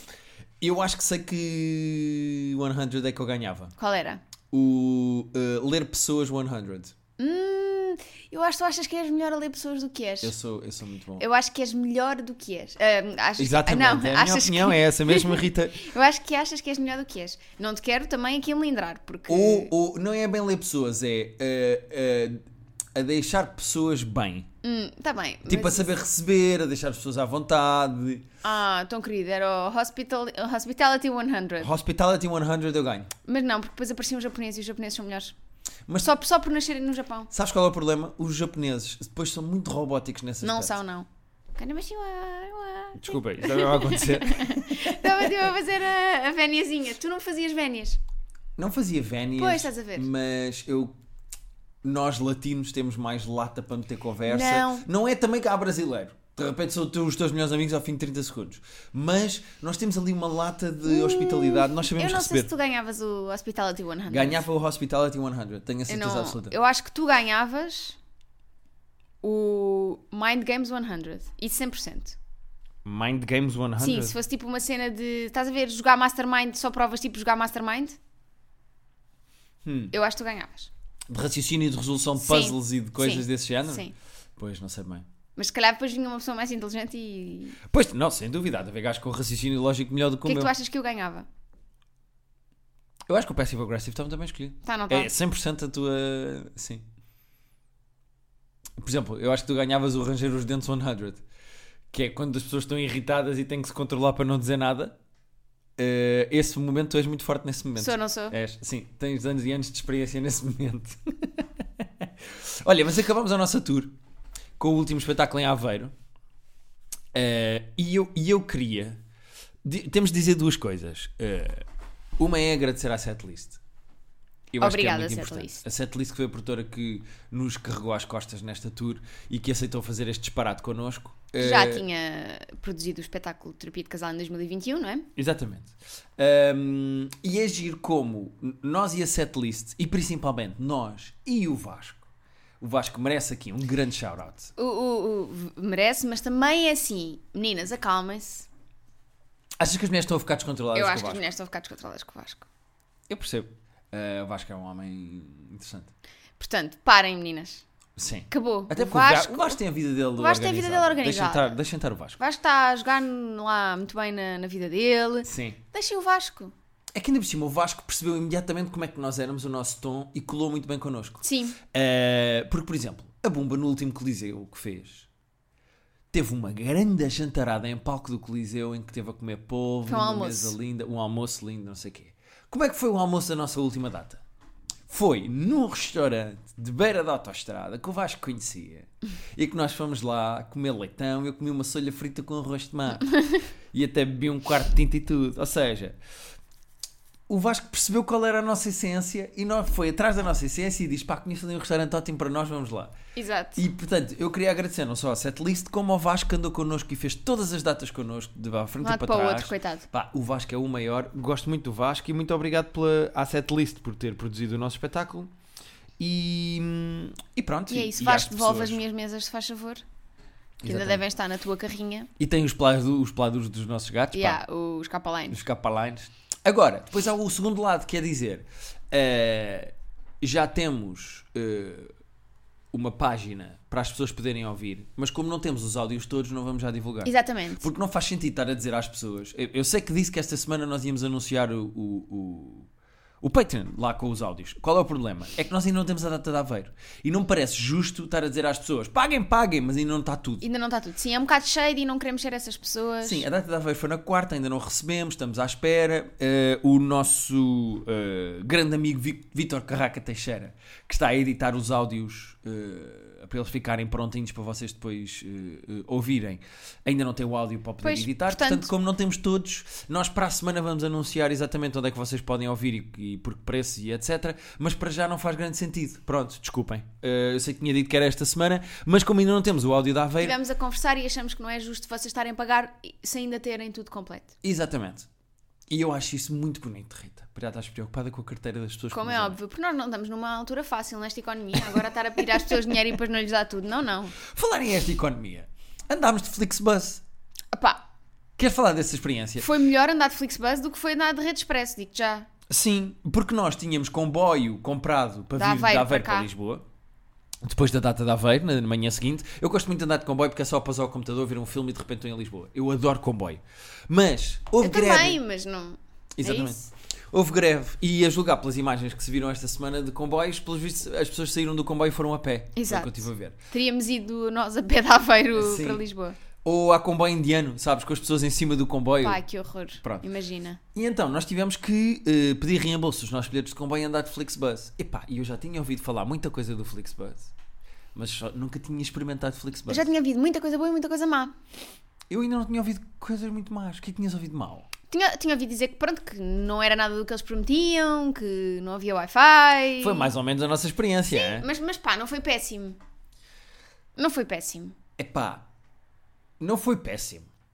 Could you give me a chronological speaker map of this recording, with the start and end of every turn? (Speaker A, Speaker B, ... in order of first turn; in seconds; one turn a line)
Speaker A: 0.6-3.7
Speaker B: 3.8-4.2
Speaker A: 4.5-6.9
Speaker B: 7.2-10.3
Speaker A: 10.2-11.2
Speaker B: 11.2-19.7
Speaker A: 13.4-15.9
Speaker A: 19.3-22.4
Speaker A: 22.9-24.5
Speaker B: 24.6-25.9
Speaker A: 25.4-28.2
Speaker B: 28.4-31.7
Speaker A: 31.6-33.1
Speaker B: 33.3-35.3
Speaker B: 36.0-37.3
Speaker A: 37.3-40.7
Speaker B: 40.4-48.0
Speaker A: 43.0-45.5
Speaker A: 48.6-51.0
Speaker B: 49.4-50.1
Speaker A: 51.8-62.5
Speaker B: 54.3-54.9
Speaker B: 60.8-64.4
Speaker A: 64.1-66.5
Speaker B: 65.9-68.0
Speaker B: 69.2-72.2
Speaker A: 72.8-74.1
Speaker B: 73.8-78.0
Speaker A: 79.6-79.9
Speaker B: 79.9-80.7
Speaker A: 81.1-83.8
Speaker B: 82.2-83.9
Speaker A: 84.4-85.0
Speaker B: 85.4-87.6
Speaker A: 87.7-90.5
Speaker B: 90.2-91.3
Speaker A: 93.1-96.8
Speaker B: 94.6-95.1
Speaker A: 98.8-101.2
Speaker A: 101.9-104.9
Speaker A: 105.8-113.9
Speaker B: 107.8-108.4
Speaker A: 114.6-115.9
Speaker A: 117.1-119.0
Speaker A: 119.6-121.7
Speaker A: 122.2-123.6
Speaker A: 124.5-131.8
Speaker B: 124.6-125.6
Speaker B: 131.4-135.1
Speaker A: 135.2-142.1
Speaker A: 142.6-144.5
Speaker B: 144.6-148.5
Speaker A: 149.6-151.2
Speaker B: 150.7-152.5
Speaker A: 153.1-155.9
Speaker B: 156.4-157.6
Speaker A: 158.0-162.2
Speaker B: 158.3-159.6
Speaker B: 160.2-161.6
Speaker B: 162.2-166.5
Speaker A: 165.2-165.6
Speaker A: 166.9-175.1
Speaker B: 171.2-171.6
Speaker A: 176.1-184.2
Speaker B: 179.9-180.5
Speaker A: 184.9-193.2
Speaker A: 193.7-196.0
Speaker A: 197.3-202.9
Speaker B: 203.1-203.7
Speaker A: 203.6-215.3
Speaker B: 208.8-209.8
Speaker A: 216.0-218.8
Speaker B: 217.7-219.8
Speaker A: 220.6-221.0
Speaker B: 220.6-222.1
Speaker A: 222.2-224.4
Speaker B: 224.1-225.4
Speaker A: 225.3-231.9
Speaker A: 232.7-242.7
Speaker B: 237.0-237.7
Speaker A: 243.2-250.4
Speaker B: 250.4-253.2
Speaker A: 253.0-280.4
Speaker B: 267.8-268.7
Speaker B: 280.2-284.3
Speaker A: 284.4-285.1
Speaker A: 285.7-289.4
Speaker B: 288.9-294.2
Speaker A: 291.6-292.7
Speaker A: 294.2-297.0
Speaker B: 297.5-297.8
Speaker A: 298.4-299.5
Speaker B: 299.4-302.3
Speaker A: 302.5-306.6
Speaker B: 305.4-306.3
Speaker A: 307.4-315.2
Speaker B: 314.6-316.7
Speaker A: 316.2-316.6
Speaker A: 317.1-323.4
Speaker B: 322.6-326.2
Speaker A: 325.3-325.8
Speaker A: 326.4-329.2
Speaker B: 329.0-330.6
Speaker A: 329.8-330.1
Speaker A: 330.7-337.3
Speaker A: 337.9-339.9
Speaker B: 339.7-341.3
Speaker A: 342.1-344.7
Speaker B: 344.9-350.1
Speaker A: 349.8-351.5
Speaker B: 351.1-352.8
Speaker B: 353.9-354.8
Speaker A: 355.0-355.4
Speaker A: 356.4-357.3